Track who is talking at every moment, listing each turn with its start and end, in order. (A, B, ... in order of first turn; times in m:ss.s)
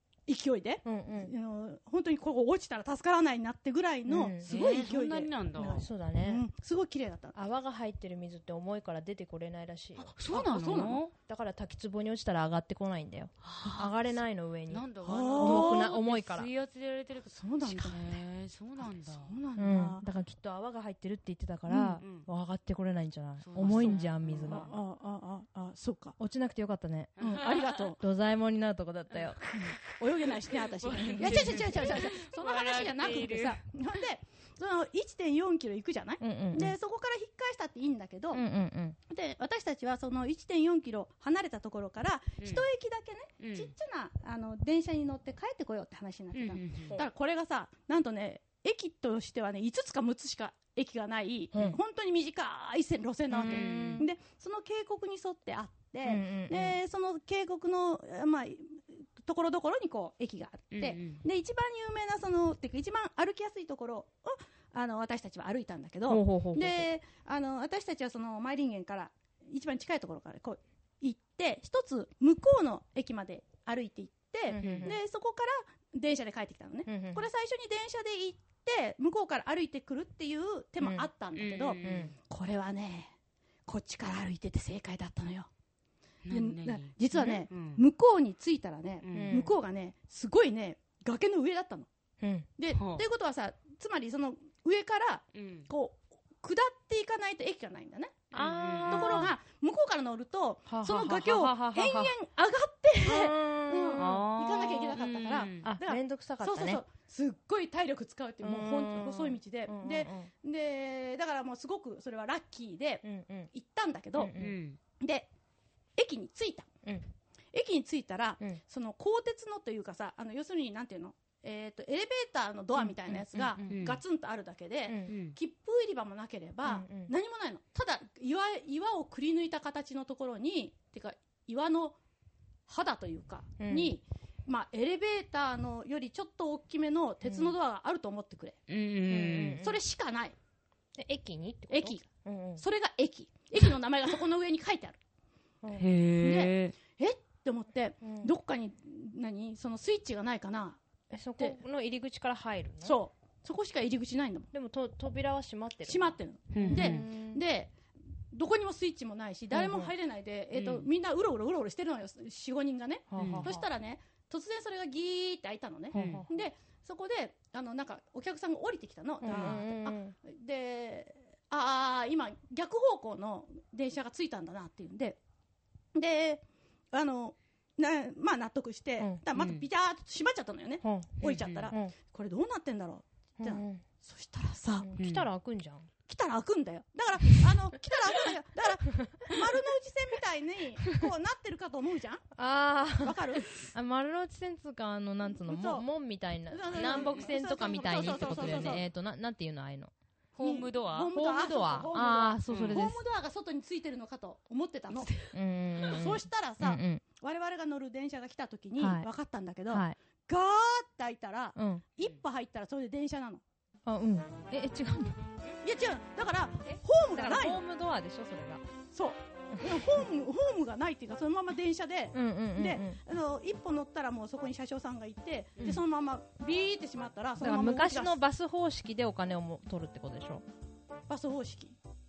0:00.3-0:07.4 A
0:00.8-0:01.3 B
0:04.1-0:04.5 B
0:04.4-0:05.8 C
0:05.8-0:06.4 B
0:07.3-0:10.1 B
0:10.0-0:11.1 C
0:10.2-0:11.0 A
0:11.3-0:16.5 B
0:13.4-0:13.9 C
0:14.7-0:19.3 C
0:15.0-0:16.0 A
0:17.3-0:18.2 A
0:18.8-0:20.0 A
0:19.6-0:24.7 B
0:21.7-0:22.0 A
0:22.0-0:22.3 C
0:23.4-0:24.7 C
0:24.5-0:26.2 A
0:26.2-0:27.2 B
0:27.2-0:27.8 C
0:27.2-0:28.0 A
0:28.0-0:29.4 B
0:29.5-0:38.4 A
0:30.5-0:33.6 C
0:31.2-0:31.6 B
0:36.2-0:36.7 B
0:38.3-0:39.0 B
0:39.1-1:23.1 A
0:43.4-0:43.7 C
0:46.3-0:47.0 C
0:51.5-0:51.8 B
0:53.3-0:54.1 B
0:53.4-0:54.0 C
0:56.0-0:56.8 B
1:00.7-1:01.2 C
1:06.1-1:06.9 B
1:14.5-1:15.0 B
1:14.5-1:14.9 C
1:16.9-1:17.3 B
1:20.8-1:21.0 B
1:21.3-1:22.1 C
1:21.8-1:22.1 B
1:23.6-1:25.5 A
1:26.2-1:27.8 C
1:26.3-1:31.9 A
1:29.0-1:29.4 C
1:29.1-1:29.5 B
1:32.2-1:32.5 B
1:32.6-1:38.3 A
1:32.7-1:33.0 C
1:35.3-1:35.7 C
1:38.3-1:39.3 C
1:38.3-1:39.3 B
1:38.8-1:54.3 A
1:40.7-1:42.1 B
1:43.0-1:44.2 B
1:44.0-1:45.7 C
1:45.6-1:46.8 B
1:48.4-1:50.3 B
1:53.0-1:53.5 B
1:54.2-1:54.6 B
1:54.4-1:54.8 C
1:55.0-1:55.3 A
1:56.0-1:56.7 A
1:57.5-2:12.0 A
2:02.8-2:03.8 B
2:03.6-2:04.0 C
2:04.8-2:05.2 B
2:05.1-2:05.4 C
2:06.6-2:07.1 B
2:12.7-2:18.6 A
2:13.6-2:14.0 B
2:17.2-2:17.5 B
2:18.7-2:19.6 C
2:19.1-2:19.8 B
2:19.6-2:20.3 A
2:20.9-2:22.6 B
2:21.7-2:25.0 A
2:25.6-2:25.9 B
2:25.7-2:26.7 C
2:26.2-2:30.8 A
2:28.0-2:28.3 B
2:31.1-2:33.0 B
2:32.8-2:34.5 A
2:34.5-2:37.4 B
2:35.8-2:37.7 A
2:36.5-2:37.0 C
2:38.3-2:55.2 A
2:39.5-2:39.9 B
2:40.5-2:40.9 C
2:43.1-2:43.7 B
2:43.2-2:43.5 C
2:45.9-2:46.3 B
2:45.9-2:46.2 C
2:49.2-2:50.1 B
2:49.3-2:49.6 C
2:55.9-3:04.9 A
2:59.3-2:59.6 C
3:00.8-3:01.9 B
3:01.2-3:01.7 C
3:03.4-3:03.8 B
3:04.8-3:05.9 B
3:05.0-3:05.3 C
3:06.1-3:12.2 A
3:09.0-3:09.4 B
3:12.3-3:19.9 B
3:13.0-3:13.5 A
3:15.4-3:15.9 A
3:16.5-3:18.8 A
3:16.7-3:17.3 C
3:18.0-3:18.8 C
3:20.4-3:21.1 C
3:20.4-3:25.1 A
3:21.1-3:23.0 B
3:22.5-3:22.8 C
3:25.3-3:27.0 B
3:25.8-3:33.4 A
3:28.8-3:29.1 B
3:29.7-3:30.0 B
3:31.6-3:31.8 B
3:33.8-3:35.3 B
3:35.6-3:37.6 A
3:36.7-3:38.6 B
3:38.9-3:48.2 A
3:39.6-3:40.0 B
3:42.1-3:43.0 B
3:47.4-3:50.4 B
3:51.1-3:51.8 A